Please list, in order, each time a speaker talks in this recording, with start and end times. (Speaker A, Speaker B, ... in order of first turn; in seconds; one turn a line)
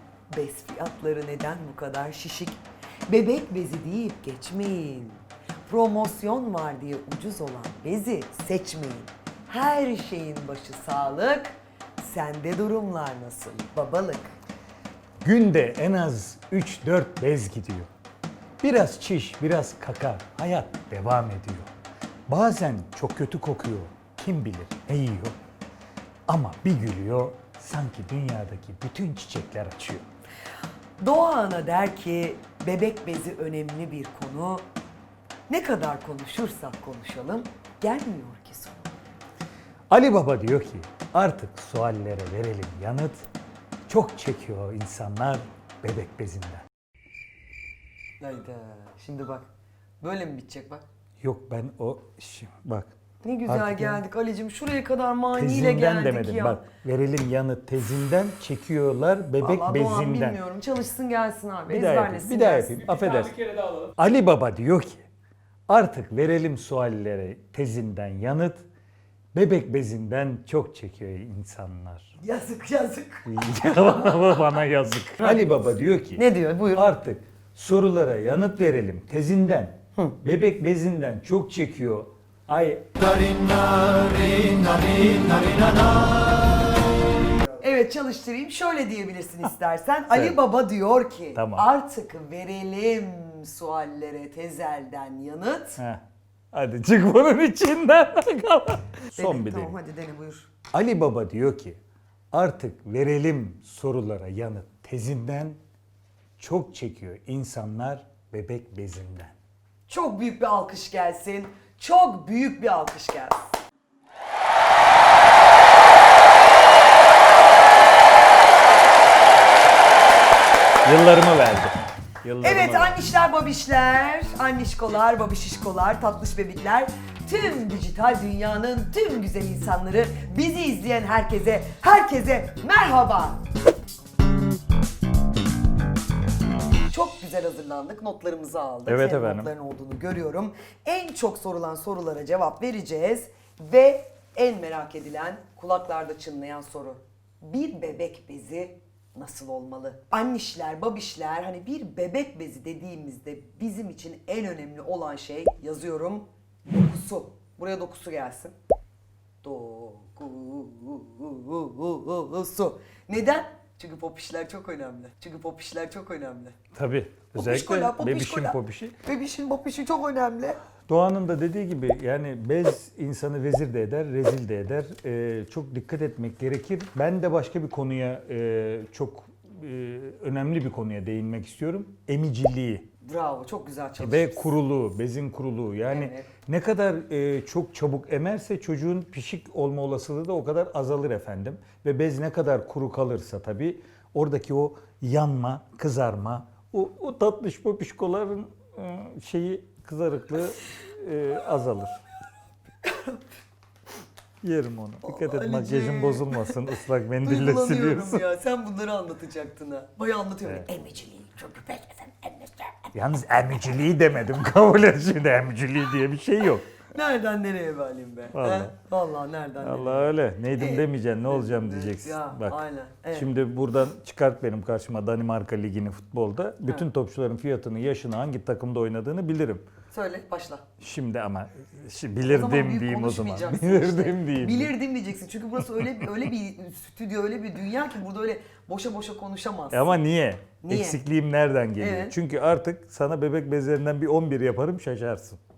Speaker A: 0.3-14.4
Speaker B: 15.2-17.9
Speaker B: 18.6-21.7
Speaker B: 22.3-25.4
Speaker B: 26.3-30.1
Speaker A: 31.0-34.7
Speaker A: 35.5-39.0
Speaker B: 39.9-43.3
Speaker B: 43.9-46.7
Speaker A: 48.2-49.5
Speaker A: 50.0-50.8
Speaker B: 51.2-52.9
Speaker A: 53.2-56.6
Speaker B: 53.5-54.0
Speaker B: 55.3-60.4
Speaker A: 59.4-63.0
Speaker B: 61.7-65.0
Speaker B: 65.7-68.6
Speaker B: 69.3-72.2
Speaker A: 72.2-74.1
Speaker B: 73.3-86.6
Speaker A: 76.2-76.9
Speaker A: 87.6-95.8
Speaker B: 91.3-91.7
Speaker B: 95.8-99.8
Speaker A: 99.2-100.5
Speaker B: 100.7-101.8
Speaker B: 102.3-105.6
Speaker B: 106.4-109.3
Speaker A: 109.9-113.5
Speaker B: 120.8-123.0
Speaker A: 122.4-133.4
Speaker A: 136.9-158.6
Speaker B: 138.9-139.5
Speaker A: 159.4-166.6
Speaker B: 166.7-168.9
Speaker A: 167.4-170.6
Speaker B: 170.9-182.9
Speaker A: 183.0-184.6
Speaker B: 184.0-202.0
Speaker A: 185.9-186.3
Speaker A: 202.8-203.2
Speaker B: 204.4-208.2
Speaker A: 205.1-212.9
Speaker B: 212.9-216.7
Speaker A: 216.9-223.3
Speaker B: 218.3-218.7
Speaker B: 219.6-222.6
Speaker B: 223.1-229.6
Speaker A: 229.9-230.7
Speaker B: 230.8-234.7
Speaker A: 232.2-240.0
Speaker B: 235.8-236.1
Speaker B: 239.7-245.4
Speaker A: 240.6-241.0
Speaker A: 241.8-242.1